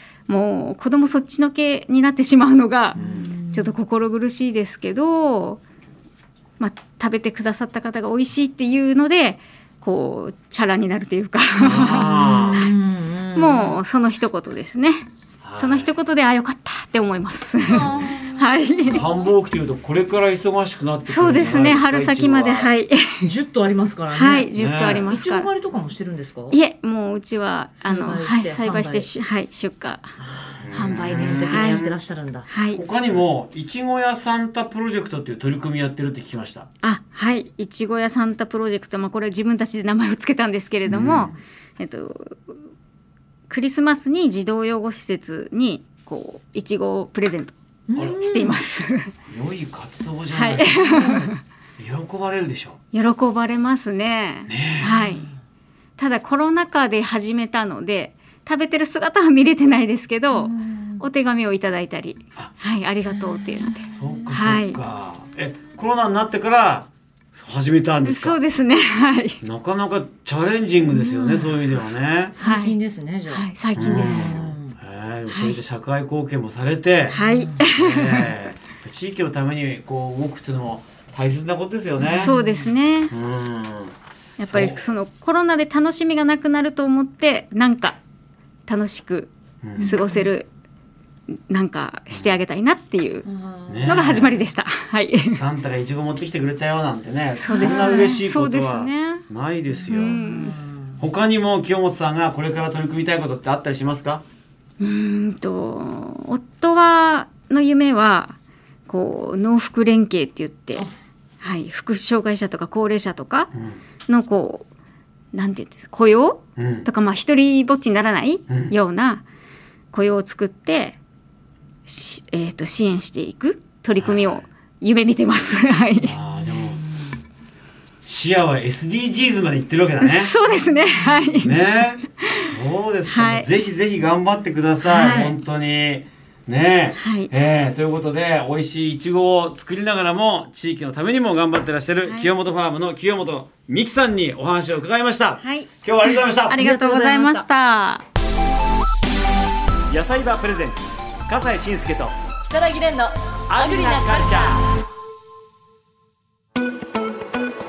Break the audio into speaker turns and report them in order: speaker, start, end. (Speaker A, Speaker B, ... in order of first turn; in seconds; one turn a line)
Speaker A: 0.3-5.6
Speaker B: 3.0-3.7
Speaker C: 3.0-3.3
Speaker A: 6.6-12.7
Speaker C: 11.6-12.6
Speaker B: 11.6-13.8
Speaker A: 13.3-19.1
Speaker C: 15.4-15.9
Speaker B: 17.7-18.5
Speaker C: 17.7-18.1
Speaker C: 18.9-22.7
Speaker A: 21.1-23.2
Speaker B: 23.2-26.6
Speaker A: 24.1-25.5
Speaker C: 24.5-25.1
Speaker A: 26.5-30.1
Speaker B: 27.8-29.1
Speaker B: 30.2-32.5
Speaker C: 30.6-31.8
Speaker A: 30.7-31.9
Speaker A: 32.5-32.8
Speaker C: 32.7-36.7
Speaker A: 36.8-42.6
Speaker C: 40.9-41.3
Speaker A: 43.5-47.5
Speaker B: 47.9-48.6
Speaker C: 47.9-48.2
Speaker A: 48.2-49.1
Speaker C: 49.3-52.8
Speaker A: 50.3-51.4
Speaker B: 50.9-51.3
Speaker A: 52.9-55.3
Speaker C: 54.5-54.9
Speaker B: 54.8-55.2
Speaker A: 56.0-64.8
Speaker B: 60.3-61.1
Speaker B: 63.1-63.9
Speaker C: 63.9-68.4
Speaker A: 68.0-69.4
Speaker C: 69.4-72.3
Speaker B: 70.8-71.8
Speaker B: 72.3-74.7
Speaker A: 72.4-72.8
Speaker A: 73.3-74.4
Speaker C: 73.8-77.2
Speaker A: 75.3-75.6
Speaker B: 77.1-77.6
Speaker A: 77.1-78.3
Speaker C: 77.7-82.3
Speaker B: 82.0-82.7
Speaker A: 82.1-83.1
Speaker C: 83.1-83.9
Speaker A: 84.4-88.0
Speaker C: 84.5-84.9
Speaker A: 88.7-90.5
Speaker C: 89.6-89.9
Speaker B: 89.8-90.3
Speaker A: 91.5-93.3
Speaker C: 92.1-92.4
Speaker B: 93.2-94.3
Speaker C: 93.7-94.3
Speaker A: 93.8-95.4
Speaker C: 95.3-100.2
Speaker A: 97.4-99.2
Speaker B: 97.5-98.2
Speaker B: 99.8-101.0
Speaker A: 99.9-100.5
Speaker C: 101.0-104.2
Speaker A: 104.8-110.9
Speaker A: 111.4-113.5
Speaker C: 113.5-113.8
Speaker A: 114.1-114.7
Speaker A: 115.3-119.2
Speaker C: 116.6-116.9
Speaker C: 118.5-118.7
Speaker A: 119.9-121.0
Speaker A: 121.8-126.2
Speaker C: 124.0-124.4
Speaker C: 126.0-126.8
Speaker B: 126.4-126.8
Speaker C: 128.0-130.3
Speaker A: 130.0-131.6
Speaker B: 130.5-131.5
Speaker C: 131.4-146.6
Speaker A: 133.1-133.5
Speaker B: 134.8-135.3
Speaker A: 136.9-137.3
Speaker A: 142.0-142.3
Speaker A: 145.4-145.7
Speaker A: 146.4-148.0
Speaker B: 146.5-147.4
Speaker C: 149.9-152.2
Speaker B: 152.4-154.6
Speaker C: 153.5-154.8